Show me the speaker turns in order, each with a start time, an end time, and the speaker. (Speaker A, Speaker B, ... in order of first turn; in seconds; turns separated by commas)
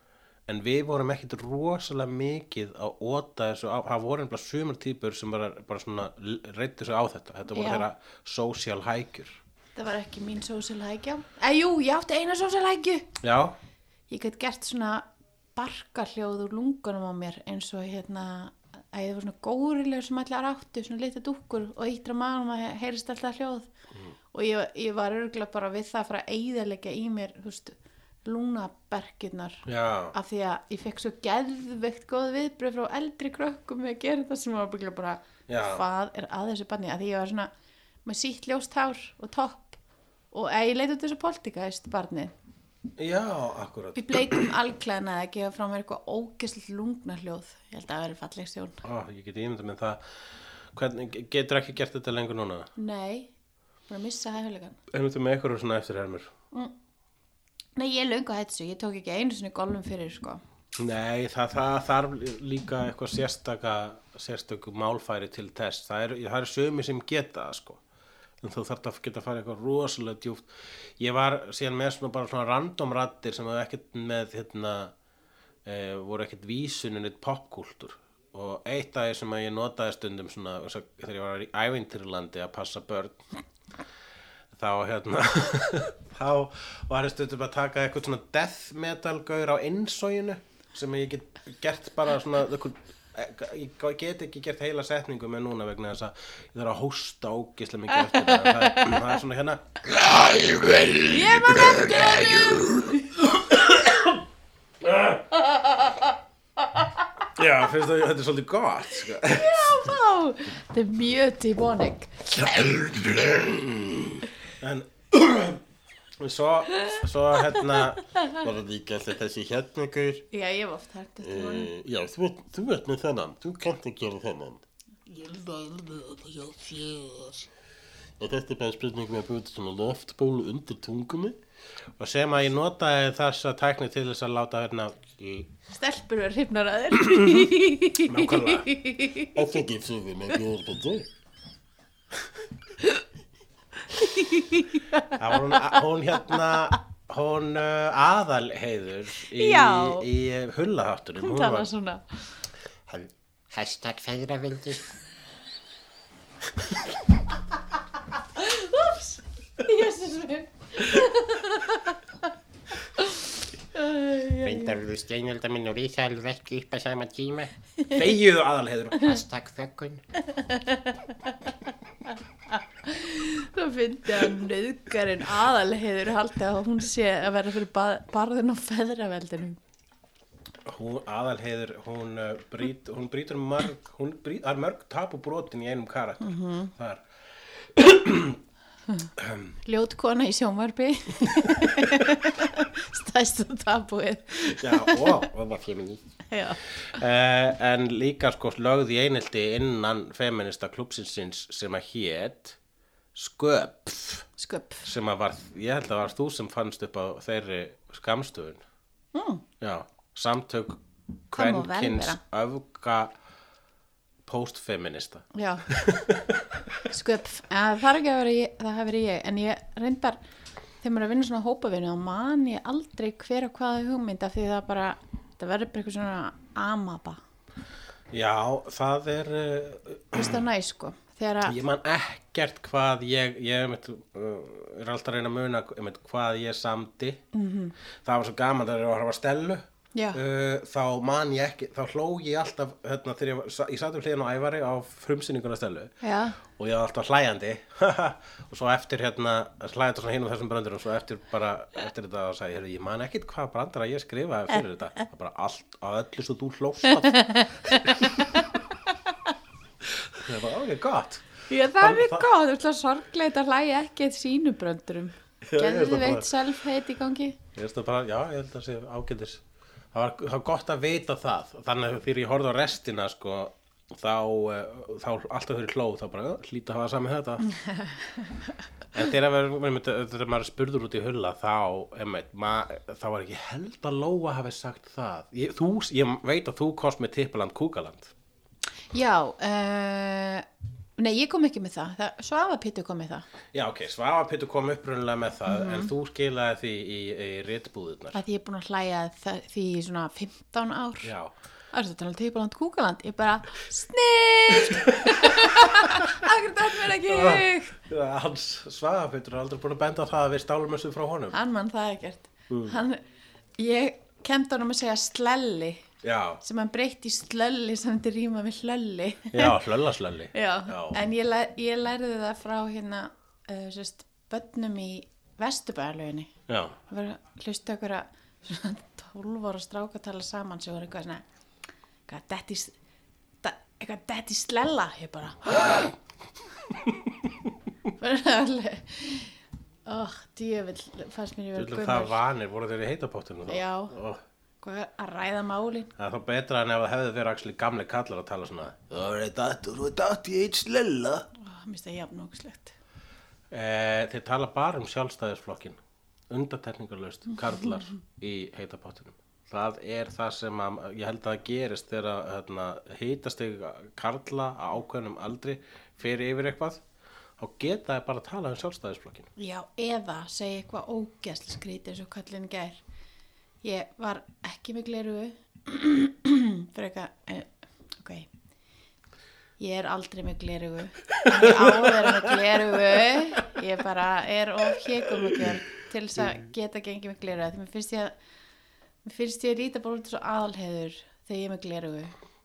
Speaker A: 0.5-9.4, Speaker B: 7.5-7.9, Speaker B: 9.8-13.1, Speaker A: 13.2-13.6, Speaker B: 14.1-23.7, Speaker B: 24.3-37.5, Speaker A: 29.7-30.1, Speaker A: 35.5-35.8, Speaker B: 38.0-39.8, Speaker B: 40.3-42.3, Speaker A: 43.0-44.5, Speaker B: 44.0-48.8, Speaker A: 48.8-52.7, Speaker B: 52.8-53.3, Speaker B: 53.9-54.8, Speaker A: 54.9-56.3, Speaker B: 57.8-60.4, Speaker A: 60.8-67.8, Speaker A: 68.4-74.9, Speaker A: 75.7-83.2, Speaker A: 84.5-104.2, Speaker B: 98.2-98.9, Speaker B: 101.1-103.2, Speaker A: 104.8-105.2, Speaker B: 105.6-106.0, Speaker A: 107.3-109.9, Speaker B: 109.3-112.2, Speaker A: 112.3-115.6, Speaker A: 116.2-120.3, Speaker B: 120.3-121.7, Speaker A: 121.2-127.5, Speaker A: 128.2-131.4, Speaker A: 132.0-135.5, Speaker B: 135.7-139.4, Speaker A: 137.0-137.5, Speaker A: 138.0-138.7, Speaker A: 139.3-141.1, Speaker B: 144.0-145.7, Speaker A: 145.2-151.7, Speaker B: 149.3-150.1, Speaker B: 151.2-152.2, Speaker C: 152.9-154.9, Speaker B: 158.4-162.0, Speaker B: 163.0-163.2, Speaker B: 163.7-164.8, Speaker C: 164.4-167.5, Speaker A: 167.9-169.1, Speaker C: 169.0-170.0, Speaker B: 170.4-170.9, Speaker B: 172.6-179.6, Speaker A: 180.7-187.0, Speaker B: 186.2-186.7, Speaker A: 187.7-188.4, Speaker A: 189.2-189.6, Speaker B: 189.7-195.2, Speaker A: 194.4-196.0, Speaker B: 196.3-196.6, Speaker A: 196.8-202.6, Speaker A: 203.2-204.3, Speaker B: 204.4-204.9, Speaker A: 204.8-208.6, Speaker B: 209.1-209.4, Speaker A: 209.6-213.1, Speaker B: 211.3-212.2, Speaker A: 214.2-216.4, Speaker B: 215.3-215.7, Speaker B: 216.9-220.2, Speaker B: 220.8-227.2, Speaker A: 228.1-230.4, Speaker B: 230.2-231.6, Speaker A: 231.4-237.2, Speaker B: 237.3-237.8, Speaker A: 238.0-258.2, Speaker B: 239.9-240.2, Speaker B: 246.0-246.4, Speaker B: 257.0-258.4, Speaker A: 259.8-262.3, Speaker B: 261.5-267.4, Speaker A: 265.4-266.3, Speaker A: 267.6-277.5, Speaker B: 277.5-278.4, Speaker A: 278.9-288.1, Speaker B: 288.9-290.5, Speaker B: 291.0-293.3, Speaker A: 293.5-298.2, Speaker B: 295.5-295.9, Speaker B: 298.1-301.1, Speaker A: 301.0-301.3, Speaker B: 301.7-307.8, Speaker A: 304.7-306.2, Speaker A: 306.9-311.4, Speaker B: 311.3-313.0, Speaker A: 312.5-312.8, Speaker B: 313.6-315.9, Speaker A: 316.0-316.4, Speaker B: 316.4-319.6, Speaker A: 319.3-321.0, Speaker B: 320.3-326.3, Speaker A: 326.5-326.8, Speaker B: 326.9-331.2, Speaker B: 332.1-332.8, Speaker B: 333.4-335.9, Speaker B: 338.0-339.4, Speaker B: 339.9-342.2, Speaker A: 341.6-344.2, Speaker B: 343.5-343.9, Speaker B: 344.6-345.9, Speaker A: 346.0-351.3, Speaker B: 351.4-352.8, Speaker A: 353.5-355.8, Speaker A: 356.3-366.8, Speaker A: 367.4-369.3, Speaker B: 369.4-372.8, Speaker B: 373.6-378.3, Speaker B: 379.6-388.1, Speaker A: 381.4-382.8, Speaker A: 385.2-385.5, Speaker B: 389.1-392.1